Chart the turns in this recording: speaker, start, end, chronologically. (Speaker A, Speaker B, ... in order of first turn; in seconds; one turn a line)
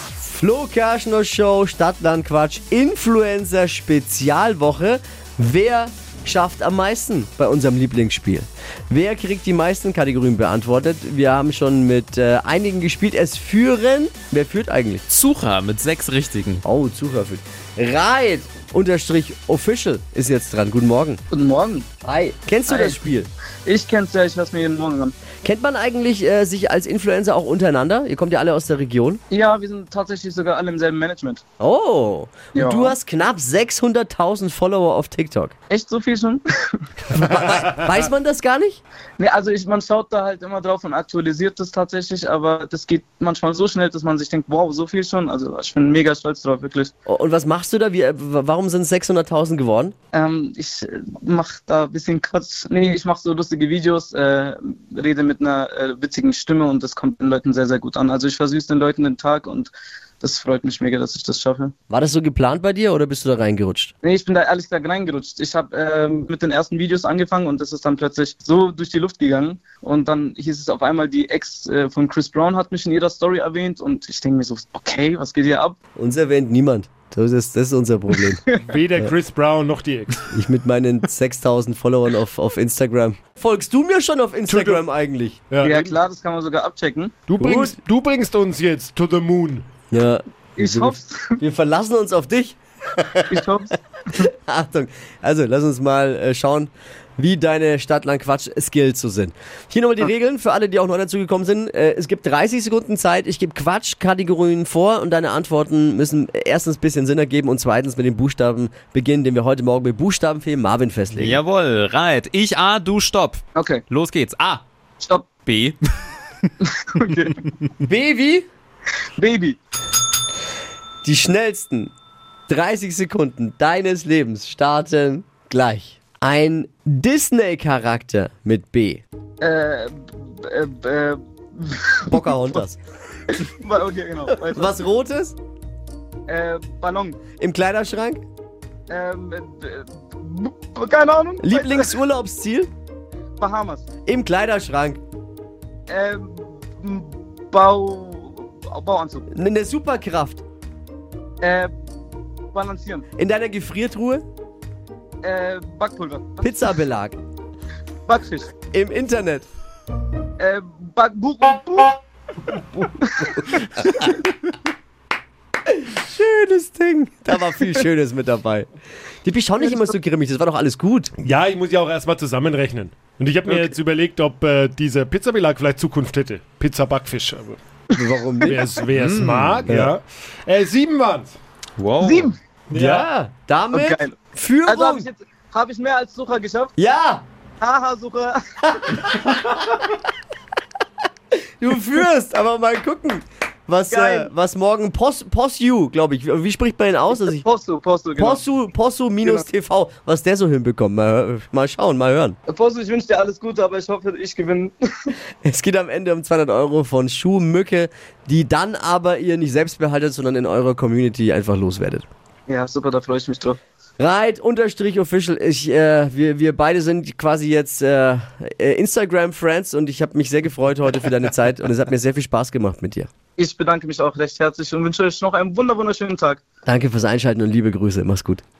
Speaker A: 0.2-15.0
Speaker B: 15.1-16.6
Speaker A: 16.6-21.2
Speaker C: 21.3-21.9
Speaker A: 22.0-23.3
Speaker C: 22.7-23.0
Speaker C: 23.6-25.1
Speaker A: 25.4-29.2
Speaker C: 29.3-31.4
Speaker A: 31.6-35.5
Speaker C: 32.5-33.0
Speaker C: 35.7-36.9
Speaker A: 37.1-38.8
Speaker C: 39.2-46.9
Speaker A: 47.1-49.9
Speaker C: 50.1-61.7
Speaker A: 61.9-63.9
Speaker C: 64.0-75.8
Speaker A: 76.0-78.4
Speaker C: 78.1-78.7
Speaker D: 78.6-80.3
Speaker A: 80.3-85.4
Speaker D: 84.5-84.8
Speaker D: 85.5-85.9
Speaker C: 85.6-87.1
Speaker D: 87.3-89.7
Speaker A: 87.4-87.7
Speaker A: 89.9-93.4
Speaker C: 90.6-91.4
Speaker C: 93.3-94.3
Speaker A: 94.1-111.4
Speaker B: 111.1-114.6
Speaker C: 113.5-113.8
Speaker C: 115.0-115.3
Speaker B: 115.5-115.8
Speaker C: 116.6-117.4
Speaker A: 117.8-118.5
Speaker C: 119.2-119.6
Speaker A: 121.0-121.9
Speaker A: 122.5-129.0
Speaker C: 129.4-132.3
Speaker A: 132.1-132.8
Speaker C: 133.3-134.8
Speaker A: 134.3-135.3
Speaker C: 136.3-137.2
Speaker A: 137.4-138.2
Speaker C: 138.9-141.9
Speaker A: 141.4-142.7
Speaker C: 143.4-143.8
Speaker A: 144.1-145.0
Speaker C: 145.9-149.3
Speaker A: 149.3-150.4
Speaker C: 151.4-151.7
Speaker C: 152.5-153.1
Speaker A: 153.2-154.2
Speaker C: 155.2-156.7
Speaker A: 156.4-157.2
Speaker C: 158.1-158.5
Speaker A: 158.7-159.5
Speaker C: 160.4-162.0
Speaker C: 163.0-164.1
Speaker A: 163.4-164.1
Speaker A: 165.7-168.7
Speaker A: 169.2-171.1
Speaker C: 169.6-169.9
Speaker D: 171.2-177.6
Speaker C: 173.5-173.7
Speaker A: 177.9-178.7
Speaker C: 177.9-178.6
Speaker D: 178.4-181.3
Speaker B: 178.9-179.6
Speaker A: 179.7-179.9
Speaker B: 181.8-182.3
Speaker C: 182.0-182.3
Speaker D: 182.7-183.1
Speaker A: 182.7-185.1
Speaker C: 183.7-184.1
Speaker C: 184.7-186.7
Speaker A: 186.8-187.2
Speaker C: 187.6-189.3
Speaker A: 188.8-189.5
Speaker A: 191.6-197.4
Speaker C: 193.9-194.3
Speaker C: 197.2-198.4
Speaker A: 198.2-202.3
Speaker C: 202.4-205.1
Speaker A: 205.4-212.1
Speaker C: 212.5-213.6
Speaker A: 214.0-223.1
Speaker C: 223.4-226.4
Speaker A: 226.7-228.4